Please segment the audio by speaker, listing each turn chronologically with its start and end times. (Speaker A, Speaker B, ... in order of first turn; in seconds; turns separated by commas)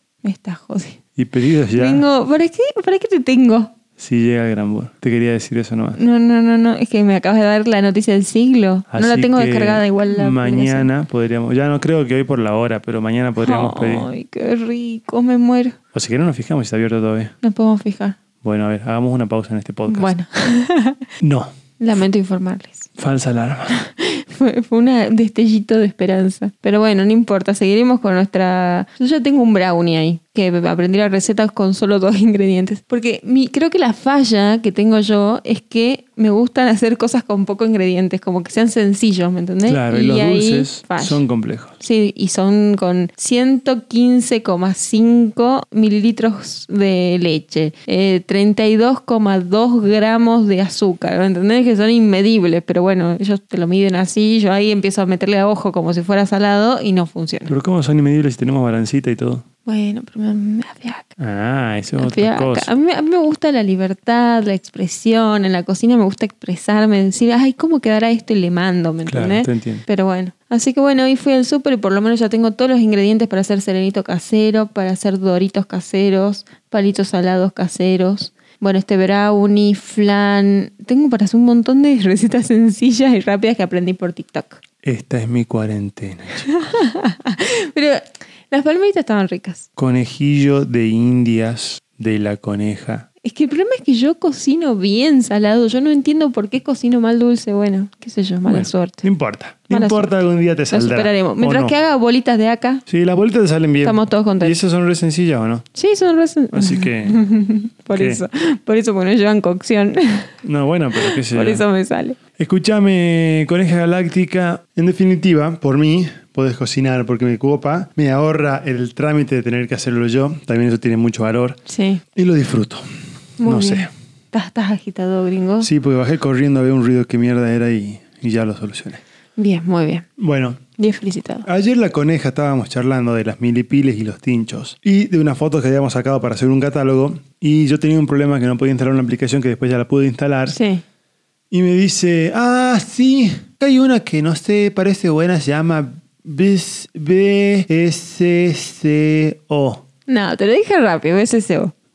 Speaker A: 0.2-1.0, Speaker B: 1.1-2.0, Speaker A: 1.7-3.7, Speaker B: 4.0-6.0, Speaker A: 5.9-10.9, Speaker B: 8.9-14.1, Speaker A: 13.4-15.8, Speaker B: 15.9-17.3, Speaker A: 17.4-18.2, Speaker B: 18.4-20.1, Speaker A: 19.9-21.1, Speaker B: 21.2-21.5, Speaker A: 21.8-22.9, Speaker B: 23.0-23.7, Speaker A: 23.7-41.2, Speaker B: 39.6-41.7, Speaker A: 41.8-57.5, Speaker B: 57.5-59.4, Speaker A: 59.6-61.1, Speaker B: 61.2-62.7, Speaker A: 62.0-84.6, Speaker B: 69.0-69.8, Speaker B: 84.8-86.5, Speaker A: 86.5-89.7, Speaker B: 89.8-93.0, Speaker A: 93.2-99.0, Speaker B: 98.5-101.7, Speaker A: 99.7-100.1, Speaker A: 100.7-102.8, Speaker B: 102.9-105.6, Speaker A: 103.8-104.5, Speaker A: 105.7-110.3, Speaker B: 106.5-107.2, Speaker B: 107.9-108.2, Speaker B: 110.4-111.6, Speaker A: 111.0-112.2, Speaker B: 112.4-121.6, Speaker A: 121.7-122.0, Speaker B: 122.1-122.9, Speaker A: 123.4-125.7, Speaker B: 123.4-123.9, Speaker B: 125.6-129.0, Speaker A: 129.4-130.1, Speaker B: 130.2-130.6, Speaker A: 130.8-131.4, Speaker B: 131.4-140.6, Speaker A: 140.5-140.8, Speaker B: 141.5-149.8, Speaker A: 150.1-151.7